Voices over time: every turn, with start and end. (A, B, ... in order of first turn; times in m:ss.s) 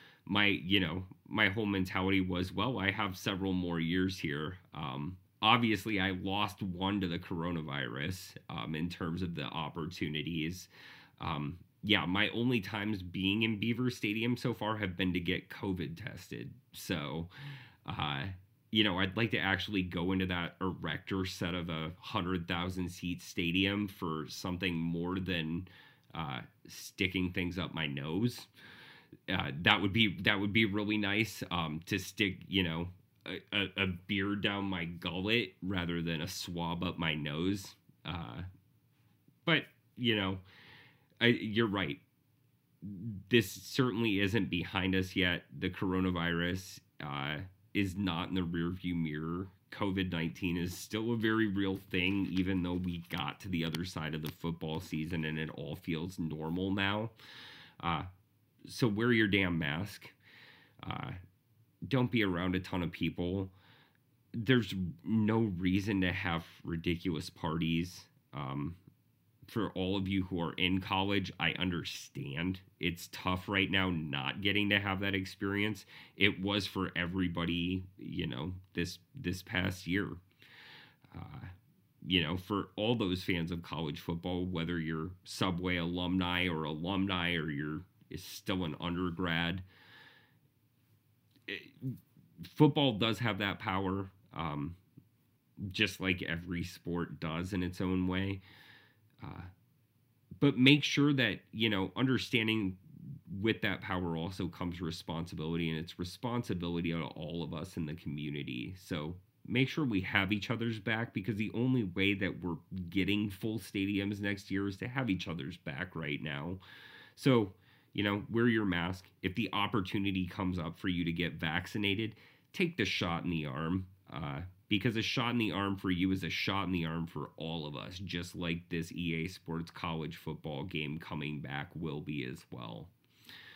0:00.3-0:17.3 A
0:17.9-0:28.5 A
0:29.3-0:38.4 A
0:39.4-0:40.4 A
0:41.2-0:42.0 A
0:42.8-0:57.1 A
0:57.8-0:58.1 A
0:58.6-1:00.2 A
1:00.8-1:01.2 A
1:01.9-1:03.5 A
1:04.3-1:08.8 A
1:09.5-1:20.2 A
1:21.1-1:29.6 A
1:31.5-1:34.8 A
1:35.6-1:38.4 A
1:39.2-1:39.5 A
1:40.4-1:56.6 A
1:57.2-2:12.9 A